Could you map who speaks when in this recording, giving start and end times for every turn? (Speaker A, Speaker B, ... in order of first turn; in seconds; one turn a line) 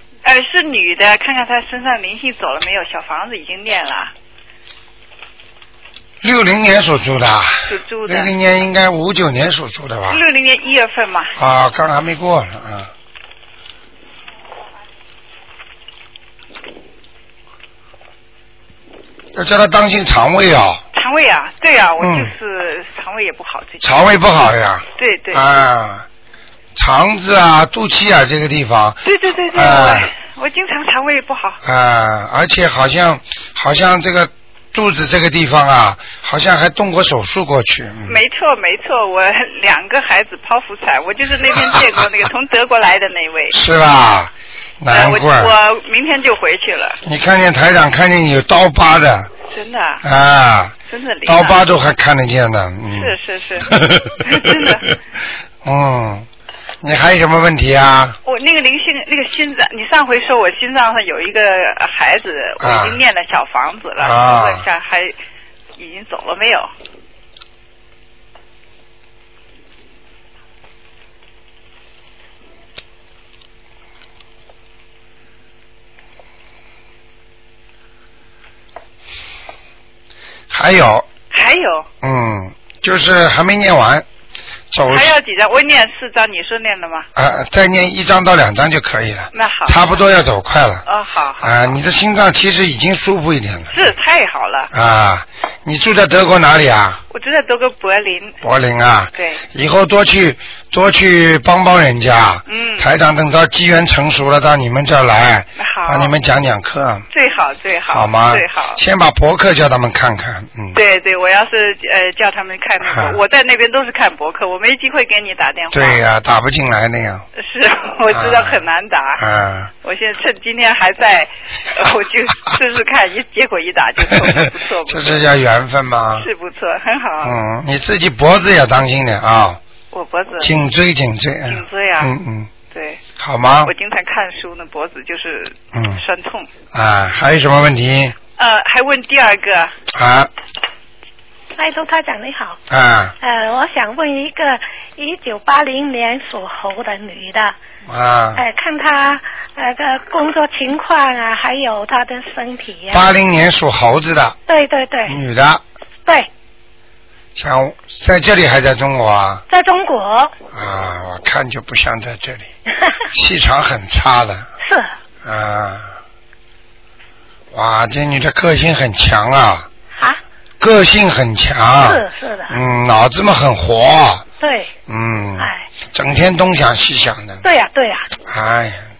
Speaker A: 0.2-4.1
Speaker B: 6.2-10.2
Speaker A: 7.7-8.3
Speaker A: 10.1-11.3
Speaker B: 11.3-12.9
Speaker B: 19.3-20.8
Speaker A: 20.9-24.1
Speaker B: 22.0-22.3
Speaker B: 23.8-26.1
Speaker A: 25.0-25.4
Speaker B: 26.7-30.1
Speaker A: 29.0-31.6
Speaker B: 31.6-38.2
Speaker A: 38.1-43.6
Speaker B: 43.5-45.5
Speaker A: 44.9-47.0
Speaker B: 47.0-49.3
Speaker A: 49.5-50.0
Speaker B: 50.0-54.7
Speaker A: 50.9-51.6
Speaker A: 52.9-54.9
Speaker B: 55.6-56.3
Speaker B: 56.8-58.1
Speaker A: 58.2-65.1
Speaker B: 62.6-63.0
Speaker B: 64.0-64.6
Speaker A: 65.8-66.7
Speaker B: 80.5-81.1
Speaker A: 81.3-81.9
Speaker B: 82.0-84.0
Speaker B: 84.7-85.1
Speaker A: 84.9-87.1
Speaker B: 87.1-90.8
Speaker A: 89.3-90.0
Speaker A: 90.9-91.5
Speaker B: 91.4-93.8
Speaker A: 93.7-94.7
Speaker B: 94.7-97.0
Speaker A: 97.1-98.4
Speaker B: 98.4-107.0
Speaker A: 99.1-99.4
Speaker A: 102.5-102.9
Speaker A: 105.6-106.1
Speaker A: 107.1-108.8
Speaker B: 107.9-110.8
Speaker A: 110.7-116.0
Speaker B: 112.8-113.2
Speaker B: 115.7-117.2
Speaker A: 117.3-119.2
Speaker B: 118.1-118.6
Speaker B: 119.2-119.7
Speaker A: 119.8-125.2
Speaker B: 124.9-126.3
Speaker A: 126.2-127.4
Speaker B: 127.2-129.6
Speaker A: 129.9-130.6
Speaker B: 130.4-132.5
Speaker A: 131.5-132.1
Speaker A: 132.7-133.0
Speaker B: 133.2-133.7
Speaker A: 133.6-136.5
Speaker B: 135.7-136.0
Speaker B: 136.7-138.1
Speaker A: 138.4-139.7
Speaker B: 139.9-140.3
Speaker C: 141.6-142.6
Speaker B: 142.7-143.1
Speaker C: 143.2-147.6
Speaker B: 147.9-148.4
Speaker C: 148.3-153.0
Speaker B: 152.9-154.4
Speaker C: 154.5-155.2
Speaker B: 155.1-155.6
Speaker B: 157.3-159.4
Speaker C: 159.5-160.3
Speaker B: 160.5-162.5
Speaker B: 163.1-164.5
Speaker C: 164.6-164.9
Speaker B: 165.2-165.9
Speaker B: 167.5-169.7
Speaker B: 170.6-174.2
Speaker C: 171.8-172.5
Speaker C: 174.4-174.7
Speaker B: 174.9-177.4
Speaker C: 175.4-175.7
Speaker C: 177.4-178.1
Speaker B: 178.2-178.8